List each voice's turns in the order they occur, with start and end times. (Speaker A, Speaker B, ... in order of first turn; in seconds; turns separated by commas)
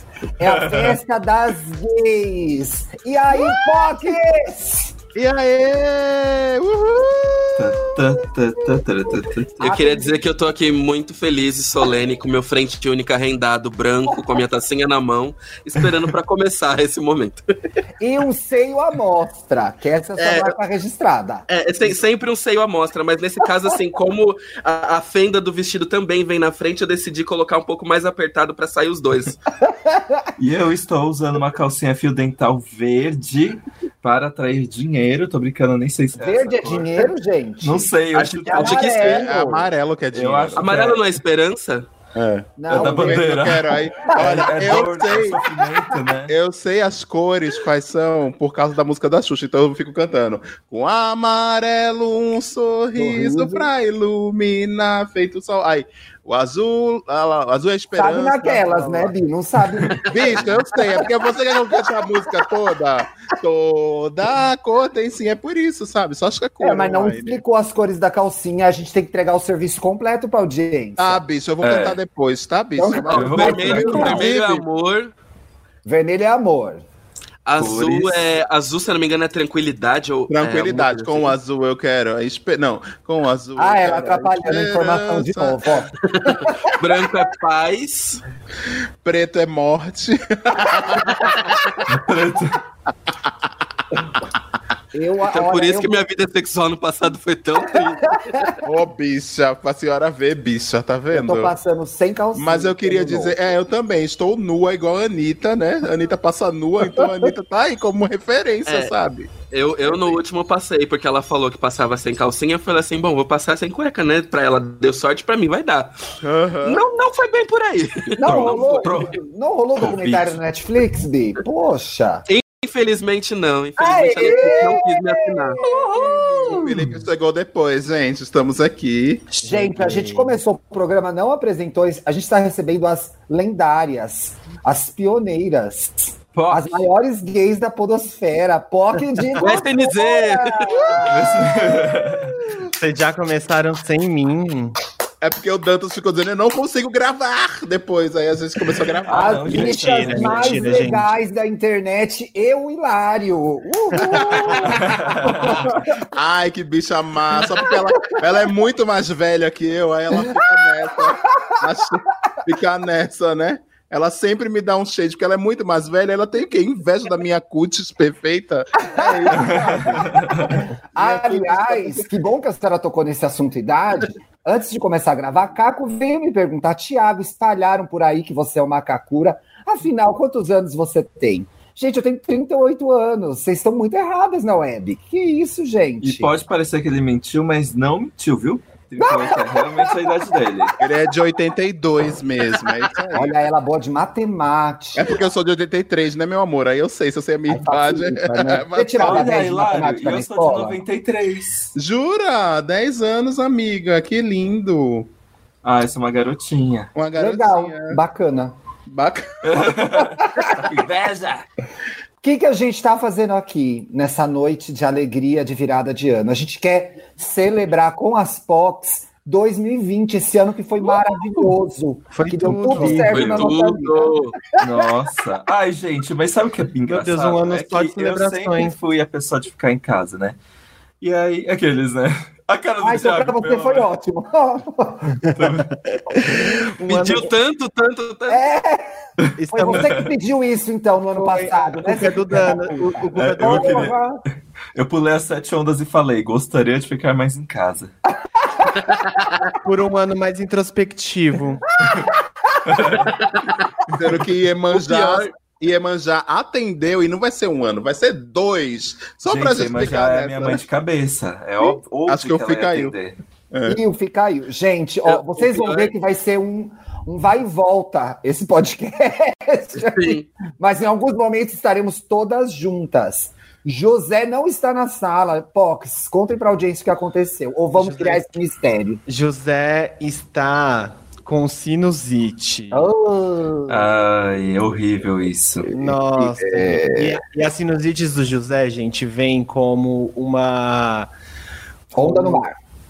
Speaker A: 0.4-1.0, Speaker B: 0.4-4.9, Speaker C: 5.2-7.9, Speaker A: 7.6-9.6, Speaker B: 9.6-10.2, Speaker D: 9.6-17.4, Speaker B: 18.0-21.9, Speaker D: 20.2-20.6, Speaker D: 21.5-29.4, Speaker B: 29.6-30.3, Speaker A: 30.4-39.1, Speaker B: 36.2-38.0, Speaker D: 38.1-39.3, Speaker B: 38.5-39.7, Speaker C: 38.6-40.7, Speaker A: 40.1-41.0, Speaker D: 40.6-41.9, Speaker C: 42.1-45.4, Speaker B: 42.6-44.5, Speaker A: 42.7-46.4, Speaker C: 46.3-59.1, Speaker B: 53.0-53.7, Speaker B: 58.0-61.1, Speaker D: 59.9-60.3, Speaker C: 60.0-67.4, Speaker B: 66.6-71.2, Speaker C: 71.0-74.6, Speaker A: 71.6-72.0, Speaker B: 72.8-74.3, Speaker D: 73.1-75.1, Speaker A: 73.1-74.1, Speaker B: 75.8-76.8, Speaker D: 77.5-81.4, Speaker A: 77.6-78.2, Speaker C: 80.3-85.8, Speaker B: 83.6-86.8, Speaker D: 86.0-88.2, Speaker C: 89.0-91.4, Speaker D: 91.2-91.7, Speaker A: 91.9-92.6, Speaker B: 94.9-95.9, Speaker D: 95.3-98.6, Speaker B: 97.8-98.5, Speaker C: 98.6-101.5, Speaker B: 101.1-103.5, Speaker C: 102.3-109.3, Speaker B: 106.8-107.3, Speaker D: 108.7-108.9, Speaker D: 109.5-115.9, Speaker C: 109.8-110.2, Speaker C: 116.2-116.8, Speaker D: 116.6-119.0, Speaker B: 118.2-122.2, Speaker A: 118.2-119.2, Speaker A: 119.8-120.4, Speaker D: 122.3-125.6, Speaker B: 123.8-126.9, Speaker C: 125.7-129.3, Speaker E: 125.7-127.0, Speaker E: 129.4-130.4, Speaker B: 129.4-141.5, Speaker A: 136.3-136.8, Speaker D: 139.4-141.1, Speaker A: 141.1-142.4, Speaker E: 142.6-144.8, Speaker C: 145.2-149.7, Speaker A: 149.1-151.0, Speaker B: 149.1-155.8, Speaker E: 149.5-151.1, Speaker E: 153.9-154.5, Speaker C: 154.0-172.1, Speaker A: 154.7-155.6, Speaker B: 157.4-157.7, Speaker B: 160.2-161.6, Speaker B: 168.9-186.3, Speaker A: 169.3-170.6, Speaker A: 186.0-190.8, Speaker B: 189.0-190.2, Speaker C: 190.8-193.4, Speaker B: 193.1-195.1, Speaker C: 194.9-199.4, Speaker B: 197.5-200.8, Speaker A: 199.0-201.7, Speaker C: 201.8-205.1, Speaker A: 205.6-206.9, Speaker C: 206.9-208.0, Speaker B: 207.2-208.5, Speaker C: 208.9-209.7, Speaker A: 209.4-211.5, Speaker B: 210.0-210.7, Speaker B: 212.2-224.8, Speaker E: 220.8-221.4, Speaker E: 222.1-223.3, Speaker A: 222.7-223.6, Speaker D: 223.1-224.3, Speaker A: 224.6-230.4, Speaker E: 226.9-228.7, Speaker A: 231.0-233.9, Speaker B: 232.8-235.6, Speaker A: 235.3-236.5, Speaker E: 236.7-237.3, Speaker D: 236.9-238.5, Speaker B: 238.3-244.2, Speaker A: 239.2-240.1, Speaker E: 239.4-239.9, Speaker E: 241.2-243.9, Speaker A: 243.2-244.0, Speaker A: 244.8-247.9, Speaker B: 248.4-248.7, Speaker D: 248.8-249.5, Speaker E: 249.6-251.7, Speaker B: 251.8-252.6, Speaker A: 251.8-252.1, Speaker A: 252.7-253.1, Speaker D: 252.9-253.7, Speaker C: 253.9-260.6, Speaker D: 254.7-255.3, Speaker A: 259.3-263.2, Speaker C: 262.1-262.9, Speaker C: 263.5-263.8, Speaker B: 263.7-279.0, Speaker D: 265.1-265.9, Speaker D: 269.8-270.3, Speaker E: 277.8-278.2, Speaker E: 279.1-282.9, Speaker B: 282.7-283.9, Speaker A: 283.7-285.9, Speaker E: 285.7-291.1, Speaker B: 286.2-286.9, Speaker B: 291.9-292.6, Speaker E: 292.0-292.4